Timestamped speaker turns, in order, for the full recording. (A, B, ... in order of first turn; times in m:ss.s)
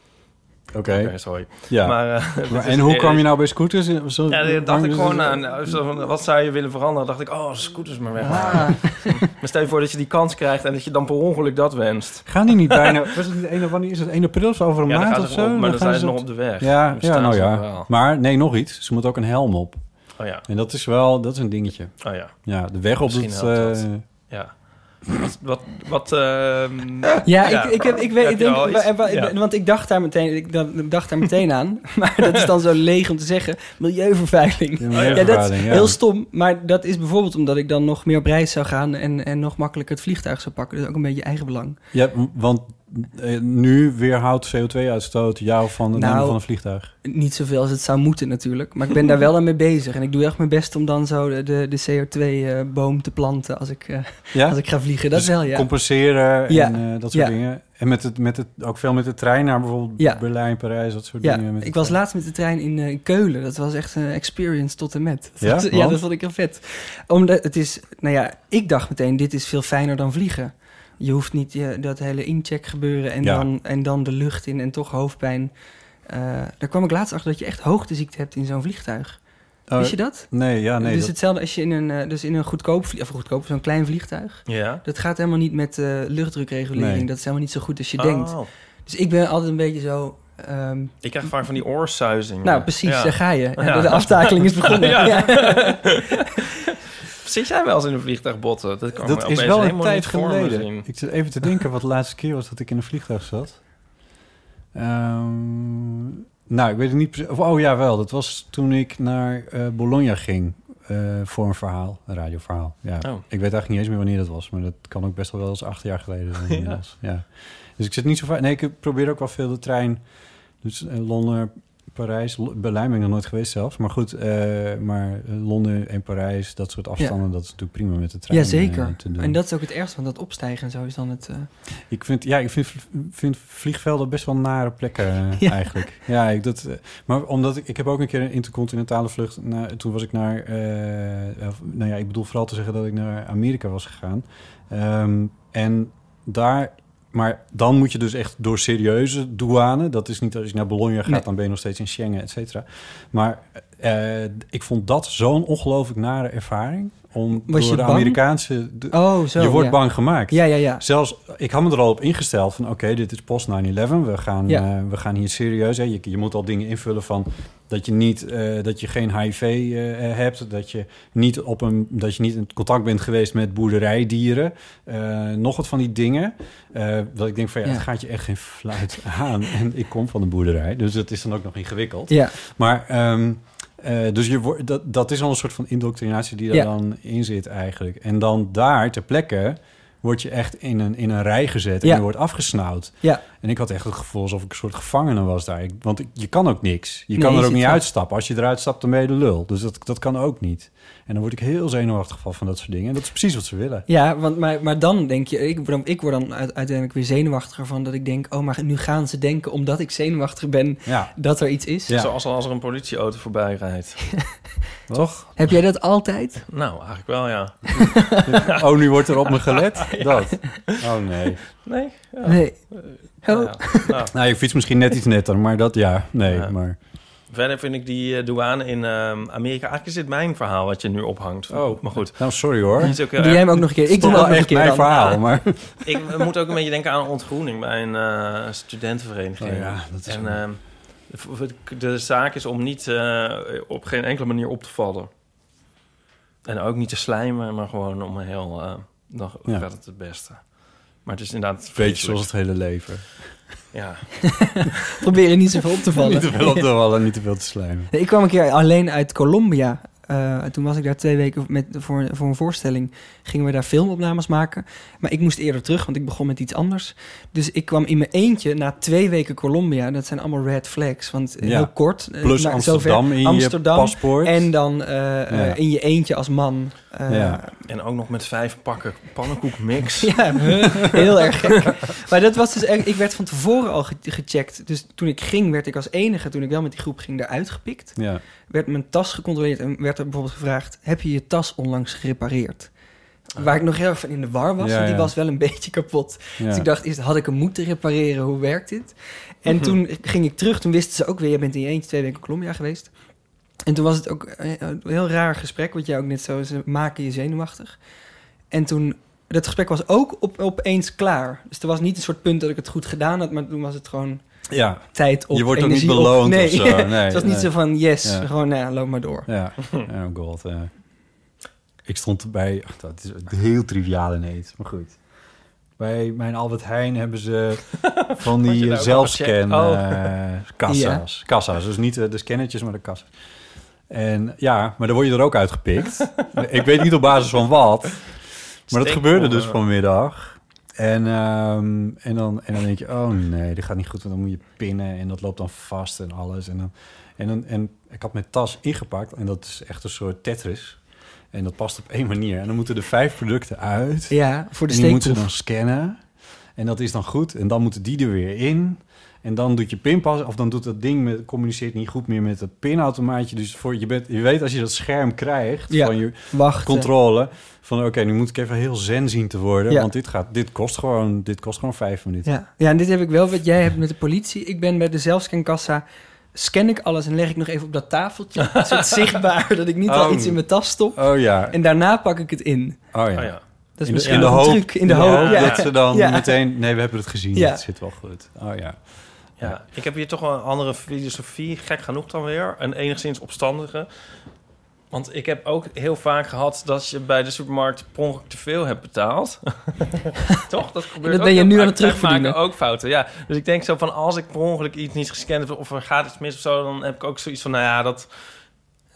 0:00.7-0:05.8 A
0:00.9-0:03.3 B
0:04.3-0:12.8 B
0:08.2-0:09.1 A
0:08.5-0:08.8 C
0:12.2-0:24.0 A
0:14.9-0:17.9 B
0:20.2-0:20.4 B
0:22.0-0:29.3 B
0:27.2-0:41.8 C
0:34.8-0:36.0 A
0:34.9-0:35.5 B
0:41.9-0:46.9 A
0:45.9-0:57.3 C
0:54.3-1:02.0 A
1:01.2-1:15.5 C
1:05.4-1:06.0 A
1:13.2-1:13.5 A
1:16.0-1:19.2 C
1:19.7-1:21.1 A
1:19.8-1:30.9 C
1:24.5-1:24.8 B
1:26.7-1:27.0 A
1:28.0-1:28.5 B
1:31.0-1:36.0 B
1:32.4-1:35.9 C
1:37.1-1:40.9 B
1:38.9-1:43.8 A
1:44.7-2:09.4 A
1:56.5-1:56.8 B
2:08.3-2:11.5 C
2:11.8-3:23.8 A
2:15.4-2:15.9 C
2:37.5-2:38.4 C
2:38.9-2:40.8 C
3:02.1-3:02.4 C
3:11.8-3:13.2 C
3:17.1-3:17.8 C
3:23.9-3:31.9 C
3:30.8-3:32.1 A
3:31.9-3:34.4 B
3:34.9-3:35.5 A
3:35.3-3:36.4 C
3:36.5-3:38.2 B
3:38.2-3:41.4 A
3:39.3-3:40.8 B
3:41.6-3:44.1 B
3:42.2-3:44.0 C
3:44.1-3:46.8 A
3:46.3-4:05.1 B
3:51.5-3:56.0 A
3:53.0-3:55.2 C
3:59.4-4:00.5 A
4:06.4-4:12.3 B
4:11.7-4:13.6 A
4:13.7-4:14.7 B
4:15.0-4:16.7 C
4:16.0-4:17.9 A
4:17.9-4:37.4 C
4:31.4-4:34.6 A
4:35.3-4:35.6 A
4:37.1-4:37.4 A
4:37.6-4:41.0 B
4:40.0-5:07.8 C
4:48.0-4:48.2 A
4:54.6-4:55.1 A
4:56.4-4:56.7 A
5:08.5-5:19.3 C
5:14.5-5:18.3 A
5:19.2-5:21.3 A
5:21.8-5:33.2 A
5:27.8-5:30.1 B
5:30.7-5:31.0 C
5:33.9-6:12.3 A
5:38.7-5:39.6 B
5:54.1-5:55.2 C
6:05.7-6:06.9 C
6:12.2-6:22.9 C
6:19.9-6:21.6 A
6:22.9-6:29.6 A
6:23.2-6:23.4 B
6:23.8-6:26.6 C
6:24.0-6:25.6 B
6:27.3-6:27.6 C
6:29.4-6:34.2 B
6:34.9-6:48.5 B
6:41.0-6:42.4 C